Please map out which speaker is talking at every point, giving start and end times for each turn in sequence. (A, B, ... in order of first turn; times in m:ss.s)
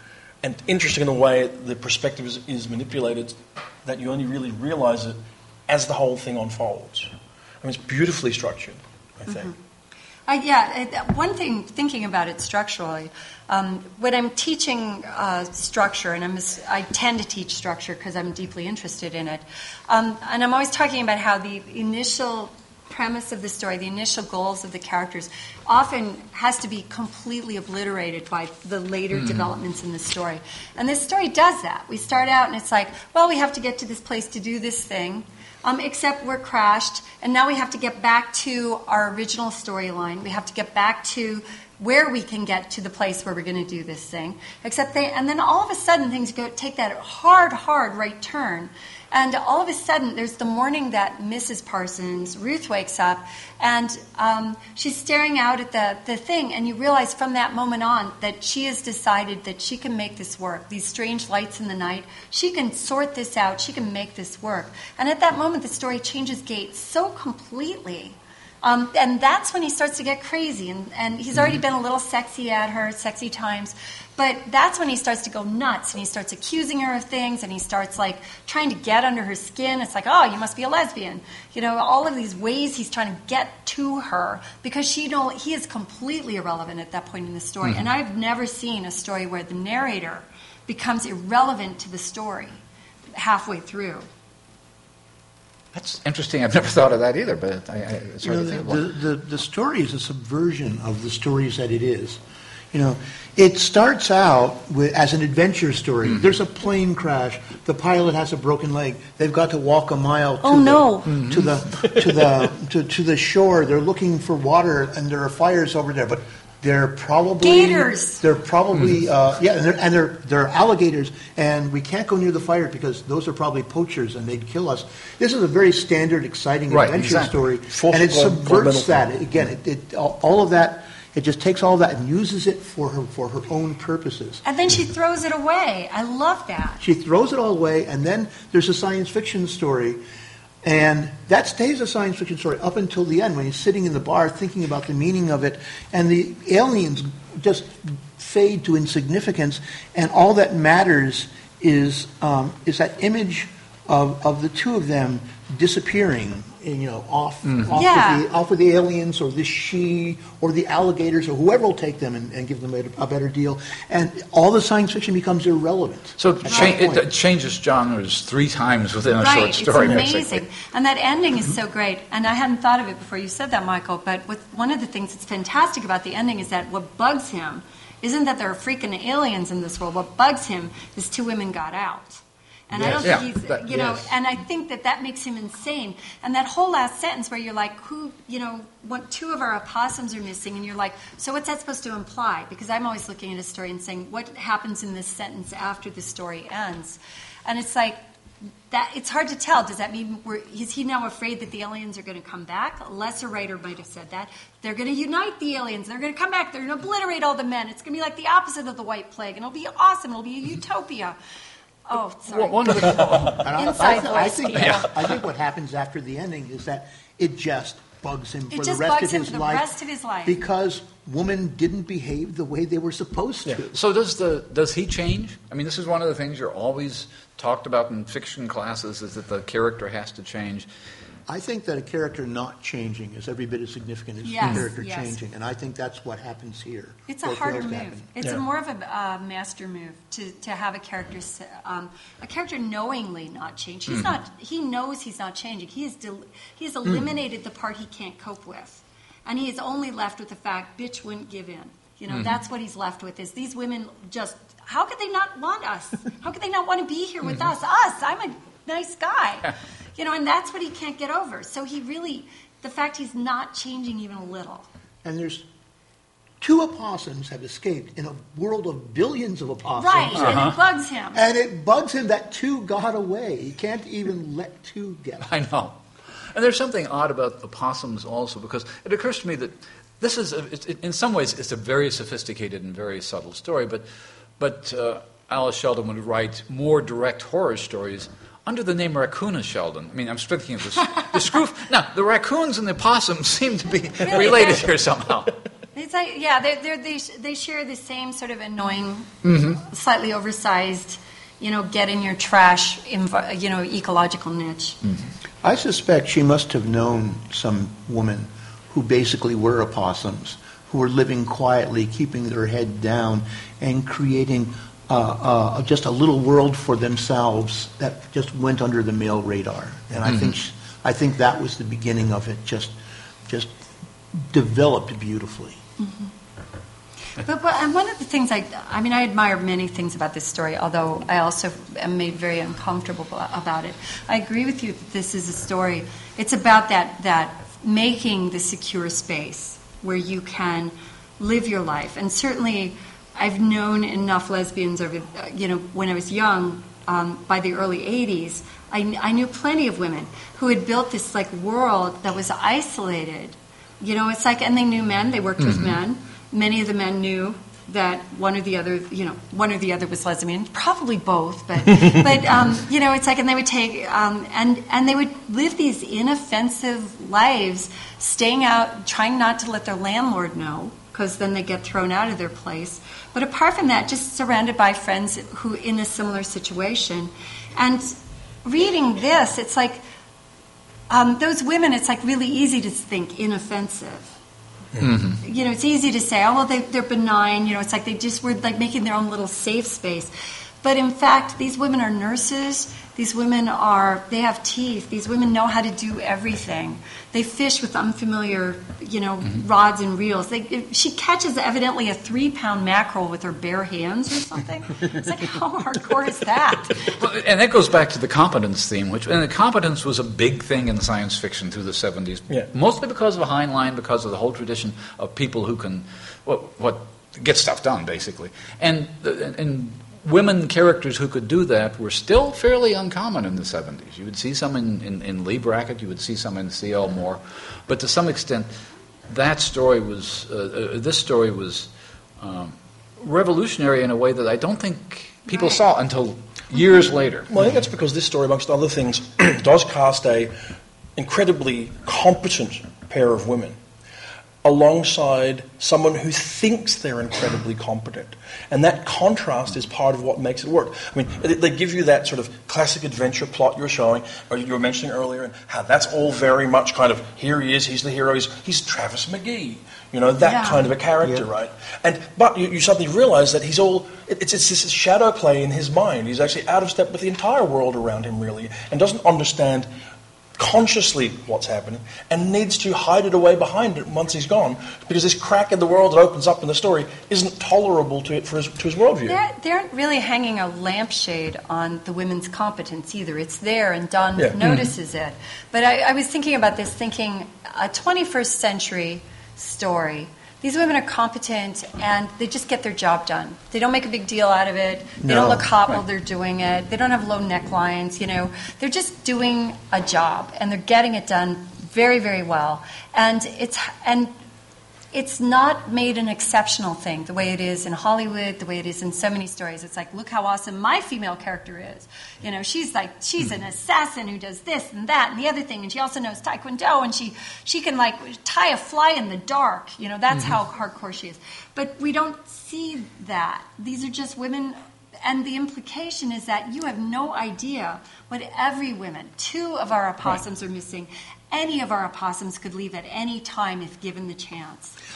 0:00.4-0:07.1 A
0:07.6-0:09.5 A
0:09.3-0:09.5 B
0:10.3-1:32.6 B
0:29.1-0:29.5 C
1:33.1-1:34.0 B
1:35.7-1:38.8 C
1:38.2-1:42.2 D
1:42.7-2:14.4 D
1:50.4-1:51.2 B
1:51.1-1:51.5 C
1:57.4-1:58.2 B
2:06.7-2:07.4 C
2:07.7-2:09.0 A
2:14.4-2:16.8 B
2:16.8-2:20.0 D
2:20.6-2:47.0 D
2:37.7-2:38.2 B
2:46.2-2:50.4 C
2:46.5-2:46.8 B
2:49.2-3:18.0 B
3:02.8-3:04.1 C
3:18.7-3:31.2 B
3:31.9-3:35.0 B
3:32.3-3:33.6 C
3:33.0-3:39.7 D
3:34.5-3:34.8 C
3:38.5-3:40.4 B
3:40.2-3:43.7 D
3:43.7-3:50.7 C
3:51.3-3:58.1 D
3:54.2-3:55.2 B
3:57.1-4:24.7 B
4:12.1-4:12.3 C
4:25.0-4:25.4 D
4:26.4-4:30.5 D
4:29.8-4:31.2 B
4:30.2-4:30.6 C
4:31.1-4:35.3 D
4:35.2-4:35.8 C
4:36.3-4:43.8 C
4:44.4-4:55.4 C
4:54.0-4:54.7 B
4:55.7-5:04.8 B
4:59.2-4:59.6 C
5:05.4-5:22.7 D
5:20.0-5:20.3 C
5:23.2-5:23.5 D
5:24.1-5:25.6 D
5:25.8-5:26.1 B
5:27.2-6:19.8 B
5:55.4-5:55.8 C
6:20.9-6:24.1 B
6:24.8-6:25.2 C
6:25.2-6:30.1 B
6:30.6-6:46.9 B
6:46.9-7:08.5 C
7:09.1-7:17.3 C
7:15.3-7:15.6 B
7:17.3-7:20.3 A
7:21.0-7:23.6 A
7:24.4-7:49.7 A
7:40.2-7:40.6 B
7:50.4-7:59.2 A
7:59.1-8:24.1 B
8:04.4-8:04.7 C
8:15.0-8:15.5 D
8:24.9-8:54.8 B
8:40.1-8:40.4 C